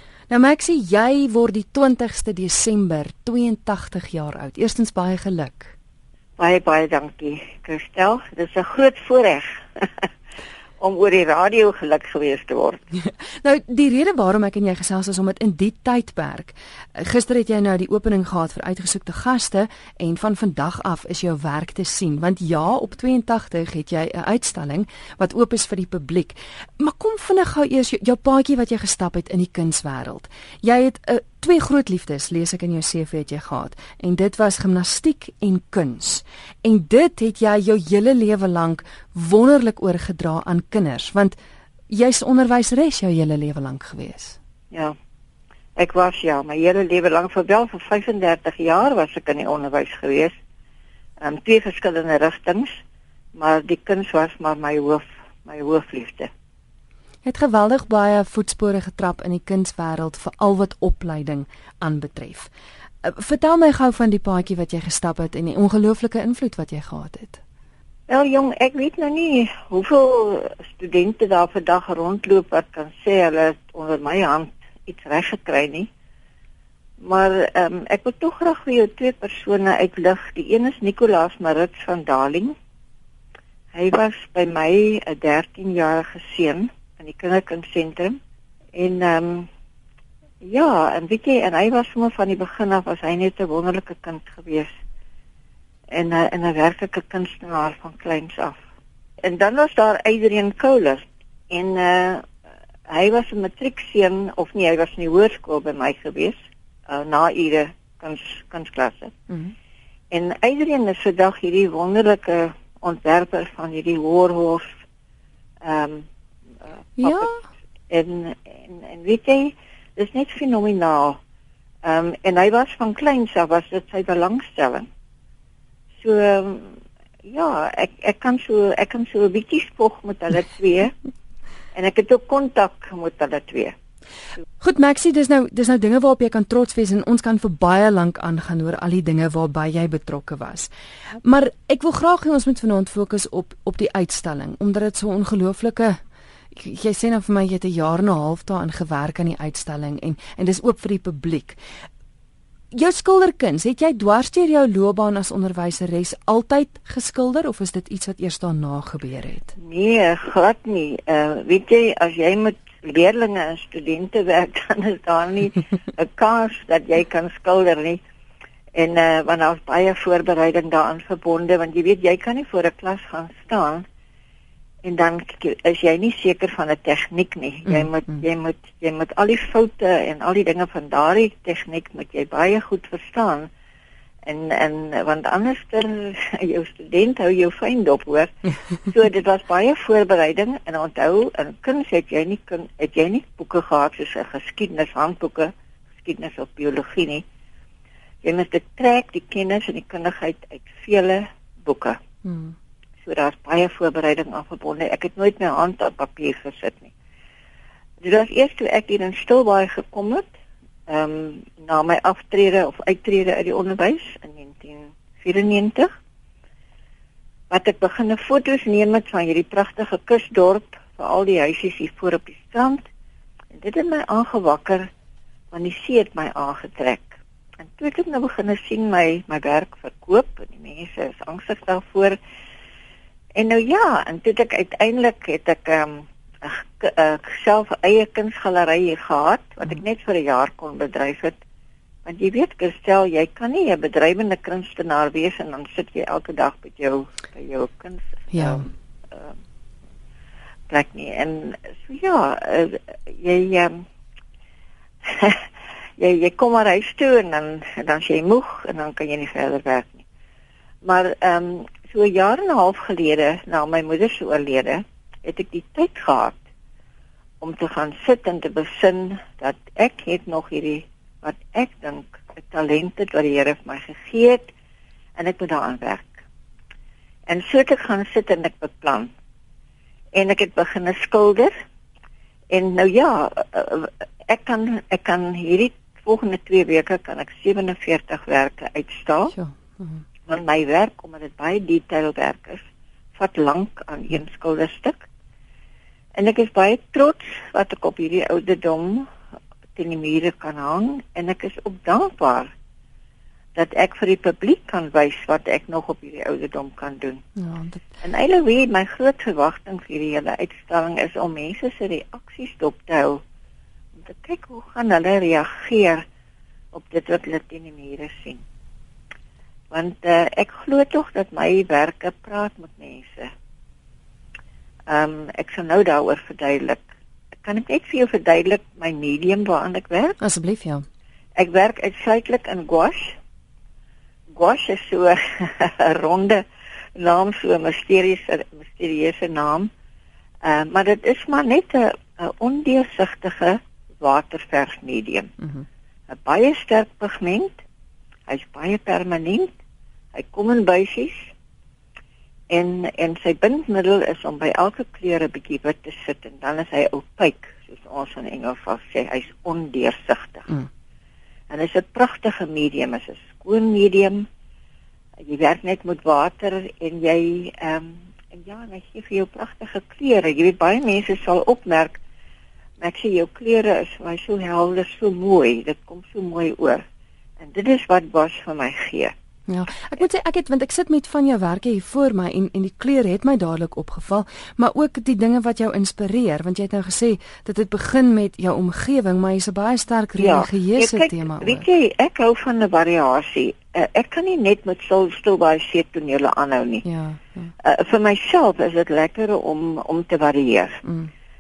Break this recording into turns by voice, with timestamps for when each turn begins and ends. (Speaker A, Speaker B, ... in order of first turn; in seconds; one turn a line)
Speaker A: 0.3-5.7
Speaker B: 6.4-10.1
Speaker B: 10.8-12.9
Speaker A: 13.0-41.4
Speaker A: 41.9-44.4
Speaker B: 45.8-50.4
Speaker B: 51.2-52.8
Speaker B: 53.3-56.3
Speaker A: 57.2-62.5
Speaker A: 63.0-67.4
Speaker B: 68.1-75.9
Speaker B: 77.0-82.5
Speaker B: 83.7-88.2
Speaker B: 88.8-89.5
Speaker B: 90.4-94.7
Speaker B: 95.9-98.6
Speaker B: 99.2-102.3
Speaker B: 102.9-106.3
Speaker B: 106.9-109.1
Speaker B: 110.1-114.8
Speaker B: 115.6-116.1
Speaker A: 117.0-117.4
Speaker B: 117.0-117.3
Speaker B: 117.9-121.2
Speaker B: 121.8-124.9
Speaker B: 126.0-130.9
Speaker B: 131.7-133.7
Speaker A: 134.6-140.7
Speaker A: 141.2-146.0
Speaker A: 146.5-151.6
Speaker A: 152.7-159.6
Speaker B: 159.6-168.0
Speaker B: 168.7-173.9
Speaker B: 174.8-183.5
Speaker B: 184.2-188.3
Speaker B: 188.9-197.2
Speaker B: 198.2-202.0
Speaker A: 202.2-202.6
Speaker B: 203.0-206.9
Speaker B: 208.0-210.3
Speaker B: 210.9-215.9
Speaker B: 217.5-222.9
Speaker B: 223.5-224.9
Speaker B: 225.5-232.2
Speaker B: 233.3-241.4
Speaker B: 242.1-249.3
Speaker A: 248.3-248.7
Speaker B: 250.7-253.8
Speaker B: 255.0-255.4
Speaker B: 256.0-260.1
Speaker B: 260.8-266.4
Speaker B: 267.4-274.5
Speaker B: 275.1-276.2
Speaker B: 277.3-279.1
Speaker B: 280.1-281.5
Speaker B: 282.5-289.4
Speaker A: 289.3-290.0
Speaker B: 290.3-292.6
Speaker B: 293.1-295.1
Speaker B: 296.1-299.1
Speaker B: 299.8-302.5
Speaker B: 303.6-307.2
Speaker A: 307.4-307.8
Speaker B: 308.0-313.2
Speaker B: 314.0-316.0
Speaker B: 316.7-318.4
Speaker B: 319.7-323.3
Speaker B: 324.9-326.9
Speaker B: 327.4-330.2
Speaker A: 330.2-330.8
Speaker B: 331.4-333.2
Speaker B: 334.3-336.4
Speaker B: 337.0-339.7
Speaker B: 340.4-345.3
Speaker B: 346.1-347.6
Speaker B: 348.3-349.5
Speaker B: 350.1-351.3
Speaker B: 352.5-360.5
Speaker B: 361.5-364.3
Speaker B: 365.2-372.0
Speaker B: 372.8-376.8
Speaker B: 377.4-379.1
Speaker A: 379.5-391.6
Speaker B: 390.2-396.9
Speaker A: 396.9-397.5
Speaker B: 397.6-400.8
Speaker A: 400.8-401.1